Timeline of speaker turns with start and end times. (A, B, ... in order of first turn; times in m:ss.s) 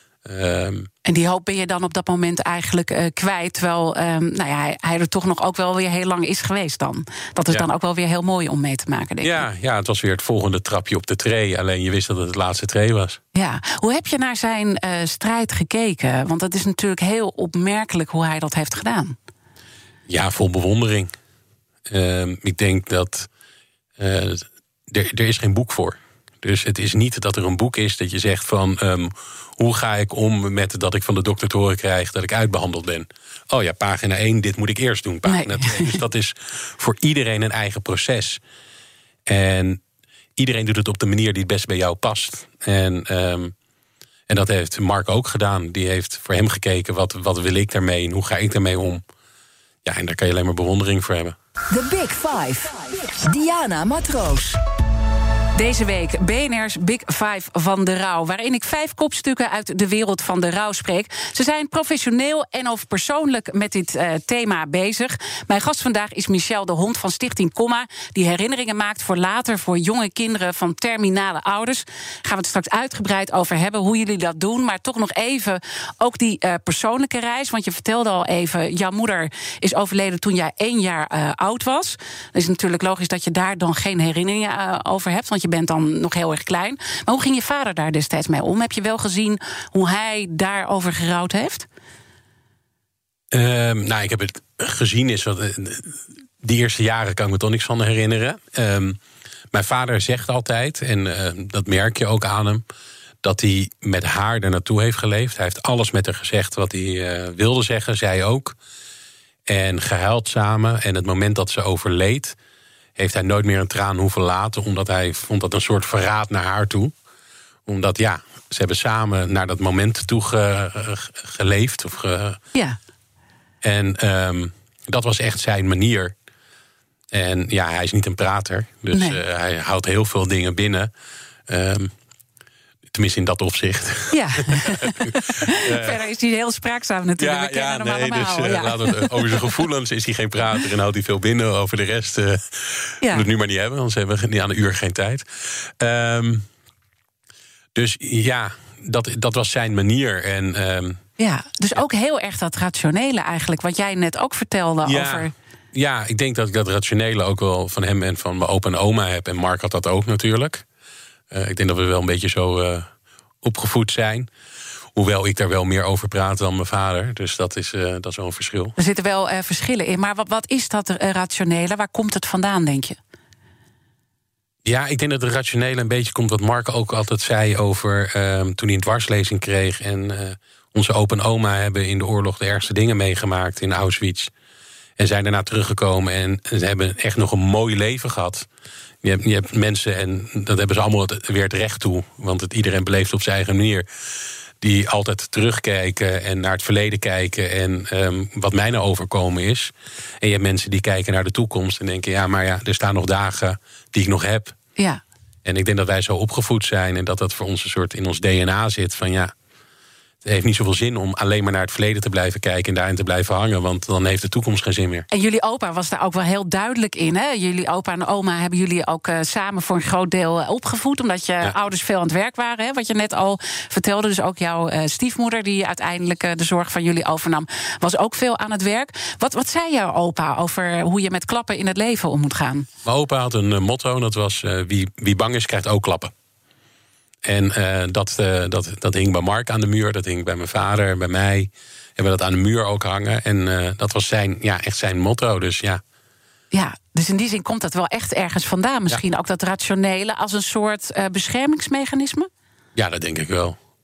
0:00.2-0:00.9 A
0:01.0-0:09.4 B
0:09.2-0:13.2 A
0:13.3-0:19.2 B
0:20.1-0:21.1 A
0:21.9-0:23.3 A
0:24.0-0:38.4 A
0:35.2-0:36.0 B
0:39.3-0:39.8 A
0:40.4-0:43.5 A
0:44.3-0:49.0 A
0:49.8-0:51.3 A
0:51.7-0:54.6 C
0:55.5-1:31.7 B
1:33.3-1:39.0 A
1:39.5-1:42.6 A
1:43.2-1:48.5 A
1:49.5-1:52.4 A
1:53.0-1:56.9 A
1:57.7-2:02.4 A
2:03.6-2:06.1 A
2:07.1-2:10.9 A
2:08.9-2:09.2 B
2:11.5-2:11.9 A
2:12.9-2:16.0 A
2:14.1-2:19.4 B
2:17.2-2:26.4 A
2:27.7-2:31.0 A
2:31.2-2:35.3 B
2:34.8-2:40.6 A
2:41.3-2:42.8 A
2:43.4-2:44.3 A
2:45.0-2:48.7 A
2:48.8-2:53.0 B
2:54.6-3:04.3 A
3:05.0-3:08.4 A
3:09.0-3:13.8 A
3:14.6-3:24.5 A
3:25.4-3:29.3 A
3:30.2-3:35.1 A
3:35.1-3:52.7 B
3:52.8-3:56.1 A
3:57.2-4:05.8 A
4:06.5-4:12.3 B
4:12.8-4:13.6 A